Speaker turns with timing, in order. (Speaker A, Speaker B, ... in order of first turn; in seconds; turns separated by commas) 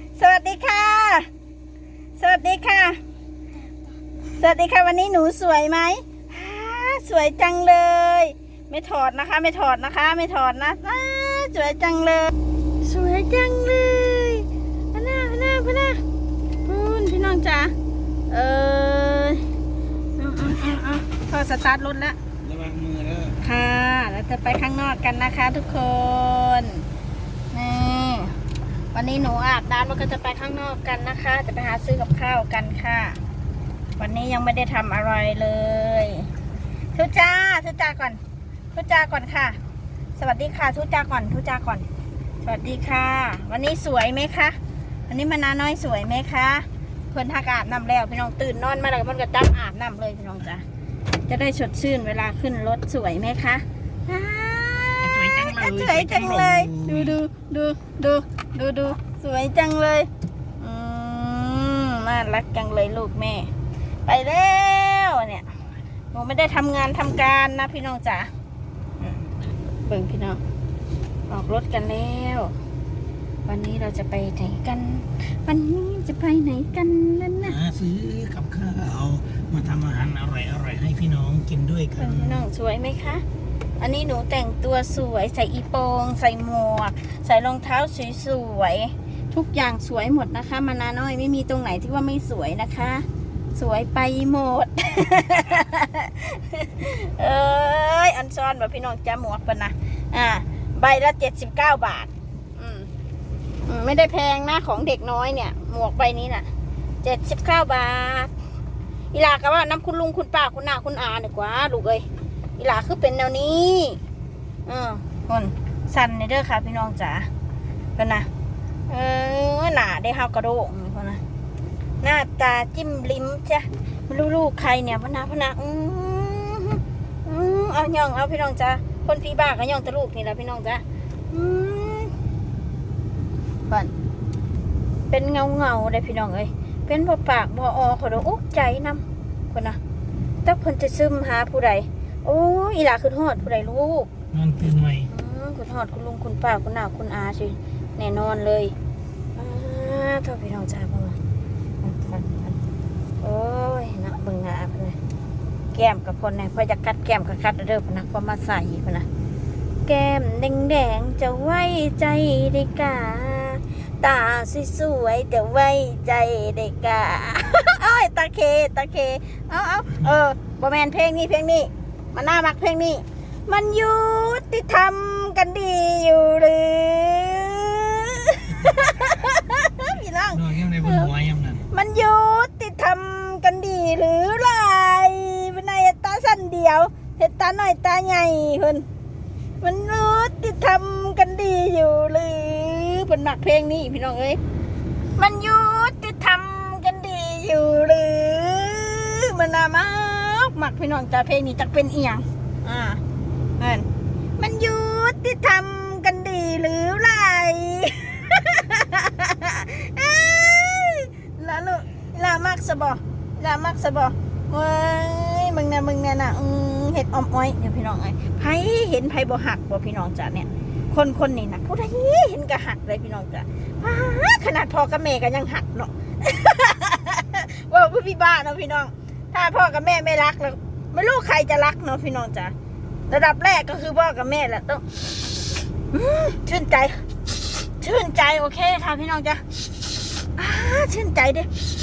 Speaker A: 0.2-1.3, Speaker A: 2.2-3.0, Speaker A: 4.4-16.0, Speaker A: 16.7-17.7, Speaker A: 18.3-19.4, Speaker A: 20.2-22.2, Speaker B: 22.4-23.4, Speaker A: 23.4-26.9, Speaker A: 27.5-28.4, Speaker A: 28.9-33.2, Speaker A: 34.0-36.3, Speaker A: 37.0-38.2, Speaker A: 38.7-39.6, Speaker A: 40.2-41.9, Speaker A: 42.4-44.6, Speaker A: 45.1-50.6, Speaker A: 51.3-63.5, Speaker B: 55.0-57.2, Speaker A: 64.1-65.5, Speaker A: 66.1-68.3, Speaker A: 69.8-70.4, Speaker A: 71.3-72.5, Speaker A: 73.5-77.6, Speaker B: 77.4-82.4, Speaker A: 82.0-83.2, Speaker A: 83.8-102.9, Speaker A: 103.7-106.5, Speaker A: 107.0-108.3, Speaker A: 109.1-112.0, Speaker A: 112.6-114.0, Speaker A: 114.7-117.3, Speaker A: 118.0-118.3, Speaker A: 118.9-121.2, Speaker A: 122.0-132.1, Speaker A: 133.7-133.9, Speaker A: 135.1-139.8, Speaker A: 140.4-144.1, Speaker B: 144.3-145.1, Speaker A: 145.1-148.7, Speaker A: 149.4-151.2, Speaker A: 151.8-152.6, Speaker A: 153.2-155.0, Speaker A: 155.7-159.1, Speaker A: 159.9-181.1, Speaker B: 180.3-181.7, Speaker A: 181.7-188.8, Speaker A: 189.6-194.4, Speaker A: 195.2-203.0, Speaker A: 203.6-203.9, Speaker A: 204.4-232.5, Speaker A: 233.1-234.8, Speaker A: 235.9-237.0, Speaker A: 237.8-239.4, Speaker A: 240.4-241.5